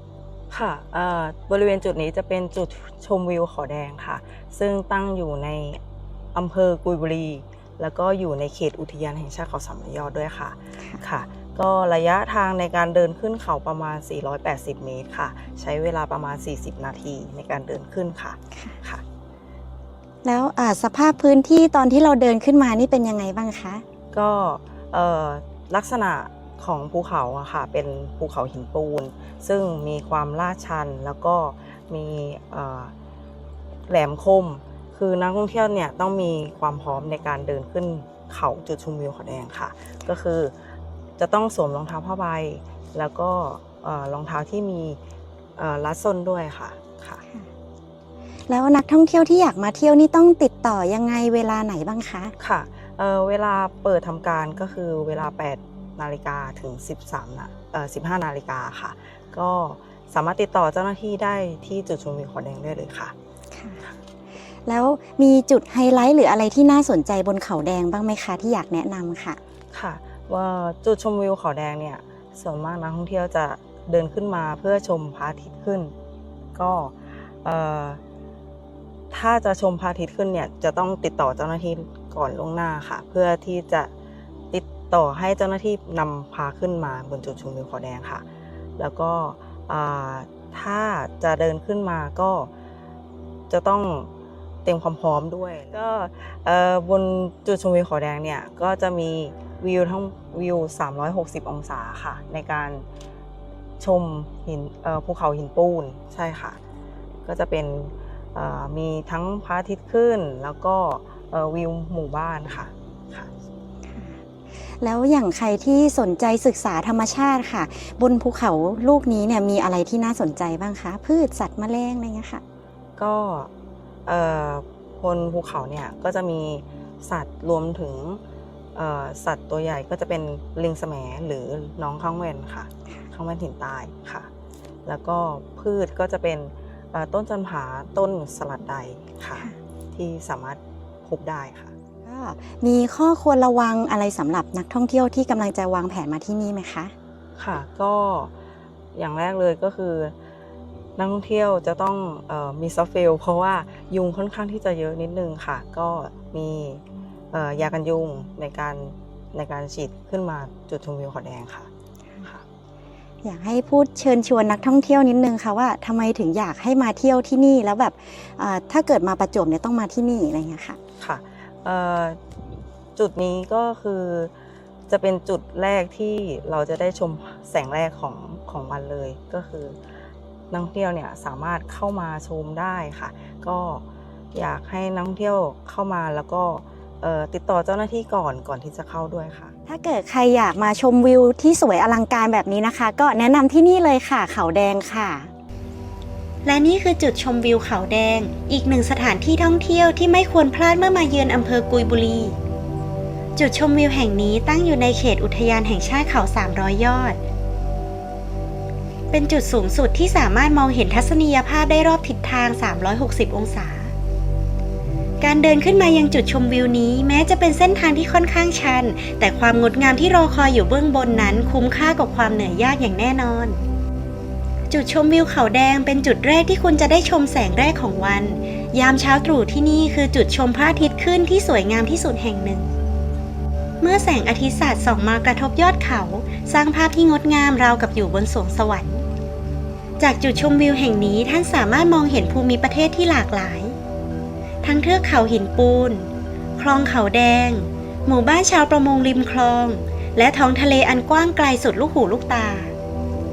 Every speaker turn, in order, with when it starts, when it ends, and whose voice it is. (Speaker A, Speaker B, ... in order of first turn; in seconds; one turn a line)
Speaker A: 0.5-5.8
Speaker A: 6.3-19.0
Speaker B: 20.2-23.8
Speaker A: 24.1-32.9
Speaker A: 33.9-40.5
Speaker A: 41.2-45.0
Speaker A: 45.6-47.2
Speaker B: 48.5-52.3
Speaker A: 52.4-63.1
Speaker B: 63.5-63.8
Speaker B: 64.7-69.4
Speaker A: 69.7-75.9
Speaker A: 76.5-78.0
Speaker A: 79.1-83.9
Speaker A: 84.5-88.2
Speaker A: 88.8-92.5
Speaker A: 93.5-94.1
Speaker A: 94.7-102.9
Speaker A: 103.8-106.6
Speaker A: 107.2-113.3
Speaker B: 113.9-122.4
Speaker A: 123.0-123.5
Speaker A: 124.1-128.2
Speaker A: 128.8-134.3
Speaker A: 134.9-141.7
Speaker B: 142.1-146.9
Speaker A: 147.4-148.3
Speaker A: 148.9-150.1
Speaker A: 151.0-161.7
Speaker B: 163.2-170.8
Speaker A: 171.0-172.2
Speaker A: 173.0-174.3
Speaker A: 174.9-179.8
Speaker A: 180.5-189.5
Speaker B: 189.7-195.3
Speaker C: 196.4-202.4
Speaker C: 203.4-207.2
Speaker C: 209.1-213.9
Speaker C: 215.2-223.6
Speaker C: 224.7-232.7
Speaker C: 233.8-239.1
Speaker C: 240.0-243.8
Speaker C: 244.6-252.7